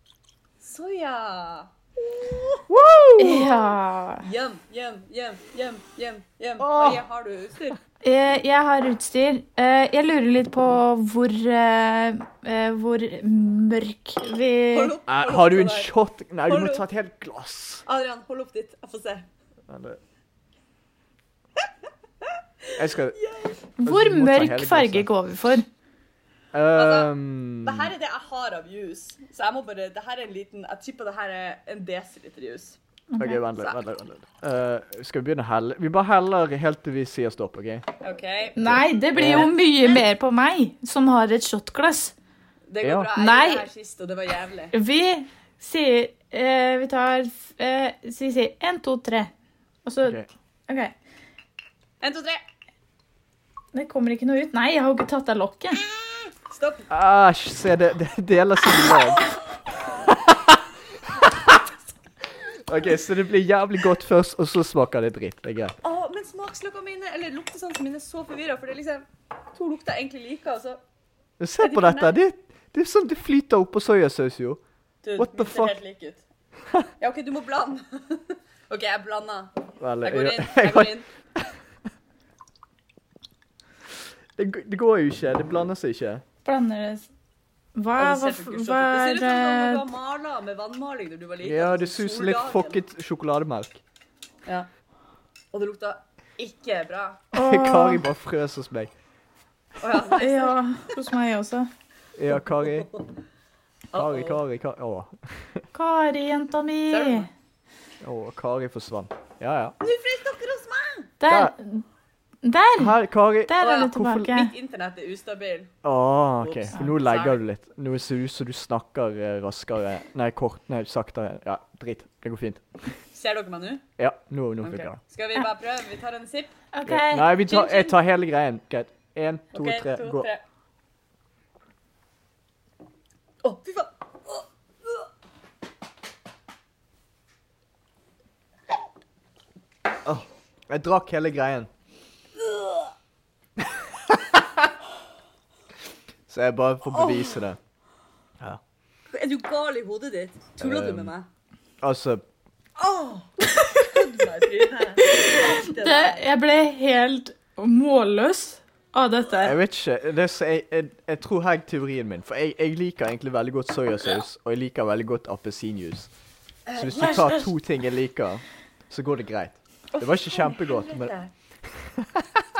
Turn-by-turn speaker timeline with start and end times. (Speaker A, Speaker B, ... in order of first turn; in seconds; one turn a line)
Speaker A: 0.6-2.6
Speaker B: 2.7-3.4
Speaker C: 3.2-4.2
Speaker A: 3.2-3.6
Speaker A: 4.2-7.8
Speaker B: 6.6-7.0
Speaker C: 8.0-14.9
Speaker A: 14.7-15.9
Speaker B: 15.1-17.8
Speaker A: 16.5-16.8
Speaker A: 17.8-19.3
Speaker B: 19.7-20.0
Speaker A: 22.2-23.6
Speaker B: 22.8-23.2
Speaker C: 23.8-25.6
Speaker B: 23.8-25.1
Speaker B: 26.5-27.9
Speaker A: 26.7-32.8
Speaker C: 33.1-33.4
Speaker B: 33.2-37.9
Speaker A: 38.0-40.0
Speaker C: 38.6-42.1
Speaker B: 38.6-39.5
Speaker A: 42.7-44.7
Speaker B: 42.8-43.1
Speaker C: 43.1-43.6
Speaker C: 44.7-49.3
Speaker C: 49.8-50.9
Speaker A: 52.0-52.4
Speaker C: 53.7-55.8
Speaker A: 56.5-56.9
Speaker B: 56.9-59.3
Speaker A: 58.9-59.4
Speaker B: 59.9-60.5
Speaker B: 62.6-65.7
Speaker A: 65.8-70.8
Speaker B: 71.4-74.6
Speaker A: 71.6-72.1
Speaker A: 75.0-76.2
Speaker B: 75.2-75.7
Speaker A: 77.0-81.1
Speaker B: 79.8-81.6
Speaker B: 84.3-86.2
Speaker C: 86.4-87.1
Speaker C: 87.8-89.8
Speaker A: 88.0-92.8
Speaker B: 91.4-93.8
Speaker A: 95.5-97.2
Speaker C: 97.3-98.0
Speaker B: 97.3-98.9
Speaker A: 99.8-101.0
Speaker C: 100.2-101.7
Speaker B: 102.2-102.9
Speaker A: 102.5-103.1
Speaker A: 103.9-104.4
Speaker B: 103.9-105.7
Speaker C: 105.7-107.2
Speaker A: 106.9-107.3
Speaker B: 108.0-109.7
Speaker A: 109.8-111.1
Speaker C: 111.2-111.8
Speaker C: 112.4-112.9
Speaker B: 112.8-114.2
Speaker C: 113.5-114.5
Speaker A: 113.6-115.8
Speaker B: 115.8-123.0
Speaker A: 116.4-117.4
Speaker A: 123.1-123.9
Speaker B: 124.0-125.0
Speaker A: 124.6-126.6
Speaker C: 126.7-127.3
Speaker B: 126.8-130.3
Speaker A: 127.3-127.9
Speaker A: 129.5-130.4
Speaker A: 133.4-135.1
Speaker B: 140.0-141.7
Speaker A: 142.4-142.9
Speaker B: 143.6-144.4
Speaker B: 146.3-147.6
Speaker A: 146.9-147.4
Speaker A: 149.1-151.2
Speaker B: 150.6-151.1
Speaker B: 151.8-152.2
Speaker A: 152.8-156.3
Speaker C: 155.0-159.6
Speaker B: 159.4-166.1
Speaker A: 166.7-167.5
Speaker B: 166.7-172.4
Speaker A: 170.0-171.3